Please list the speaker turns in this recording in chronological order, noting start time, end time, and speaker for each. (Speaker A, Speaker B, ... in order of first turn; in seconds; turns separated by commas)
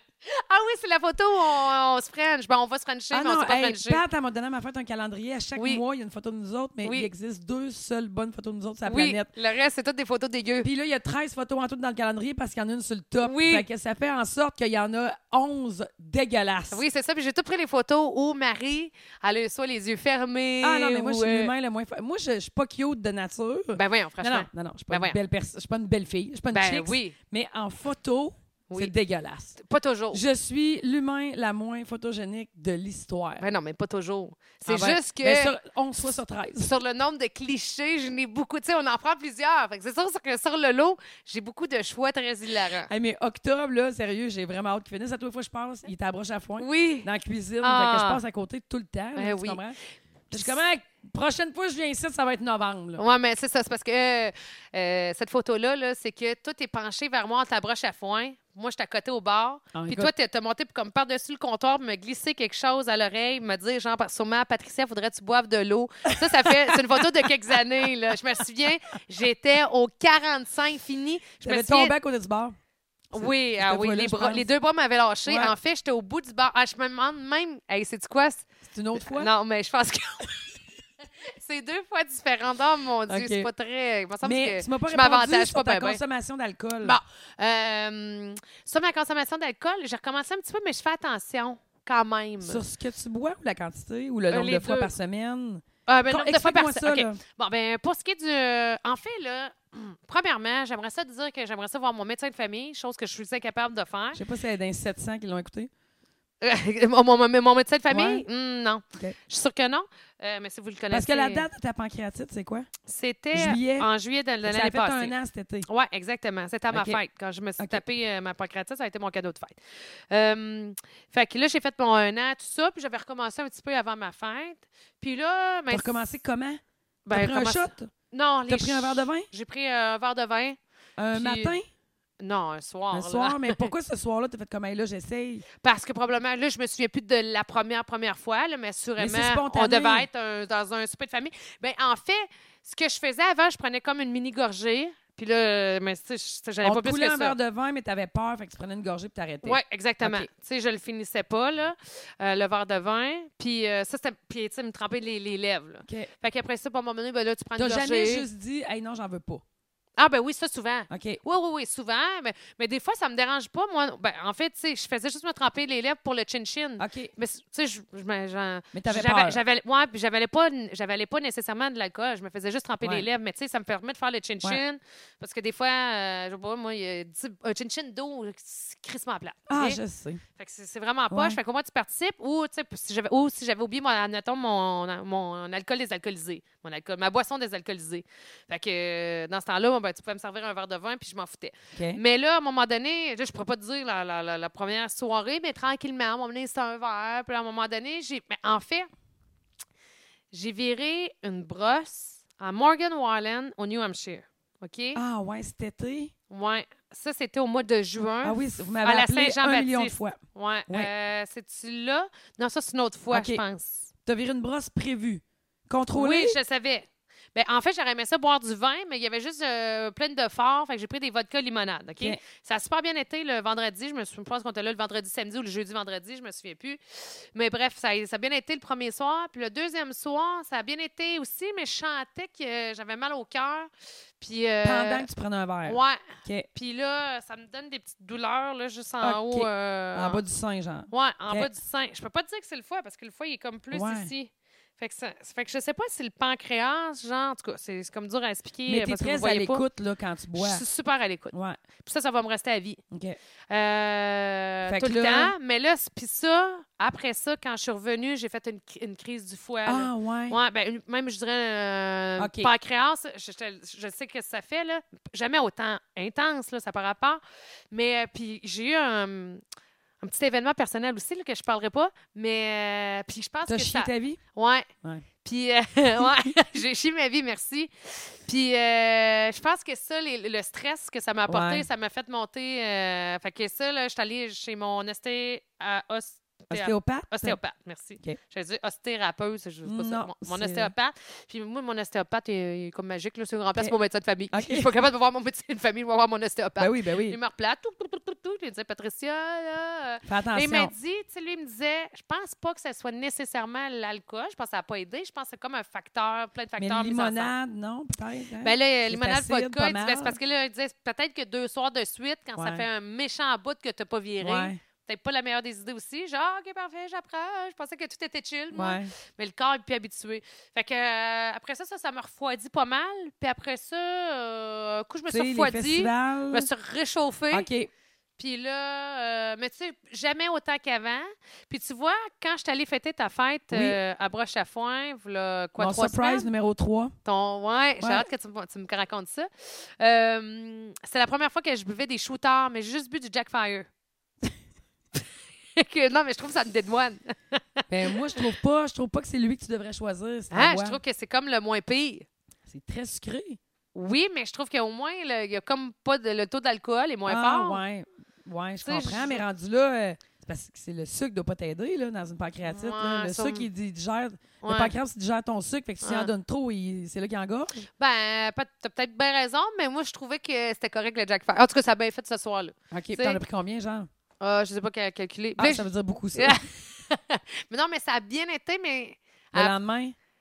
Speaker A: 0.2-4.0, Speaker B: 3.1-9.3, Speaker A: 5.5-5.8, Speaker A: 6.8-7.1, Speaker A: 8.8-10.7, Speaker B: 10.6-16.8, Speaker A: 13.2-13.7, Speaker A: 16.7-21.5, Speaker B: 20.6-29.6, Speaker A: 23.7-25.2, Speaker A: 26.5-27.1, Speaker A: 29.6-30.2, Speaker B: 30.1-33.5, Speaker A: 33.4-35.5, Speaker B: 34.6-36.7, Speaker A: 36.6-42.9, Speaker B: 42.7-49.8, Speaker A: 46.6-47.1, Speaker A: 47.6-48.2, Speaker A: 49.1-49.6, Speaker B: 50.3-53.0, Speaker A: 53.0-71.9, Speaker B: 59.7-60.1, Speaker B: 66.2-68.2, Speaker B: 71.4-72.5, Speaker A: 73.1-80.6, Speaker B: 73.1-74.5, Speaker B: 75.2-75.5, Speaker B: 78.7-79.3, Speaker A: 81.2-86.0, Speaker B: 83.1-83.5, Speaker B: 84.2-87.0, Speaker A: 86.8-92.6, Speaker B: 92.4-97.2, Speaker A: 94.3-94.9, Speaker A: 95.8-104.2, Speaker B: 104.1-105.7, Speaker A: 106.4-111.5, Speaker B: 107.9-108.2, Speaker B: 110.9-112.7, Speaker A: 112.9-126.0, Speaker B: 113.3-113.9, Speaker B: 114.4-115.7, Speaker B: 116.7-117.0, Speaker B: 117.6-117.8, Speaker B: 125.7-127.9, Speaker A: 127.0-130.6, Speaker B: 128.5-129.3, Speaker B: 131.0-131.7, Speaker A: 131.1-131.6, Speaker A: 132.2-133.7, Speaker B: 132.9-135.4, Speaker A: 135.6-147.3, Speaker B: 139.0-140.1, Speaker B: 146.6-150.3, Speaker A: 149.4-158.3, Speaker B: 157.6-159.4, Speaker A: 160.0-179.8, Speaker B: 160.9-161.2, Speaker B: 166.8-167.1, Speaker B: 168.7-169.4, Speaker B: 179.5-180.2, Speaker A: 180.4-198.9, Speaker B: 181.1-181.4, Speaker B: 191.7-192.0, Speaker A: 200.3-205.0, Speaker B: 204.9-206.1, Speaker A: 206.3-213.9, Speaker B: 208.2-210.9, Speaker B: 213.1-213.4, Speaker B: 214.1-216.4, Speaker A: 215.9-235.1, Speaker B: 234.6-236.5, Speaker A: 235.6-240.2, Speaker B: 239.0-241.5, Speaker A: 240.9-249.6, Speaker B: 243.7-244.1, Speaker B: 248.7-250.6, Speaker A: 250.3-252.8, Speaker B: 251.3-251.6, Speaker B: 252.9-253.2, Speaker A: 253.5-267.2, Speaker B: 254.7-255.3, Speaker B: 259.6-260.4, Speaker B: 262.2-262.5, Speaker A: 267.7-269.4, Speaker A: 270.0-274.7, Speaker B: 273.5-274.2, Speaker A: 275.2-307.3, Speaker B: 281.3-281.6, Speaker B: 286.5-287.4, Speaker B: 289.6-290.7, Speaker B: 294.3-294.7, Speaker B: 296.6-297.2, Speaker B: 300.1-300.7, Speaker B: 306.6-310.2, Speaker A: 308.4-327.5, Speaker B: 312.4-312.6, Speaker B: 314.2-314.6, Speaker B: 318.5-318.9, Speaker B: 325.1-326.5, Speaker B: 327.3-327.7, Speaker A: 328.2-336.3, Speaker B: 333.5-333.8, Speaker B: 335.6-336.9, Speaker A: 337.0-343.7, Speaker B: 337.8-338.1, Speaker A: 345.6-348.2, Speaker B: 347.7-350.8, Speaker A: 350.3-352.1, Speaker B: 352.5-353.4, Speaker A: 353.7-357.6, Speaker B: 357.1-367.6, Speaker A: 358.6-359.2, Speaker A: 362.4-363.5, Speaker A: 364.4-364.7, Speaker A: 365.8-366.1, Speaker A: 367.8-373.2, Speaker B: 372.7-373.9, Speaker A: 374.2-379.5, Speaker B: 375.4-376.4, Speaker B: 379.3-379.9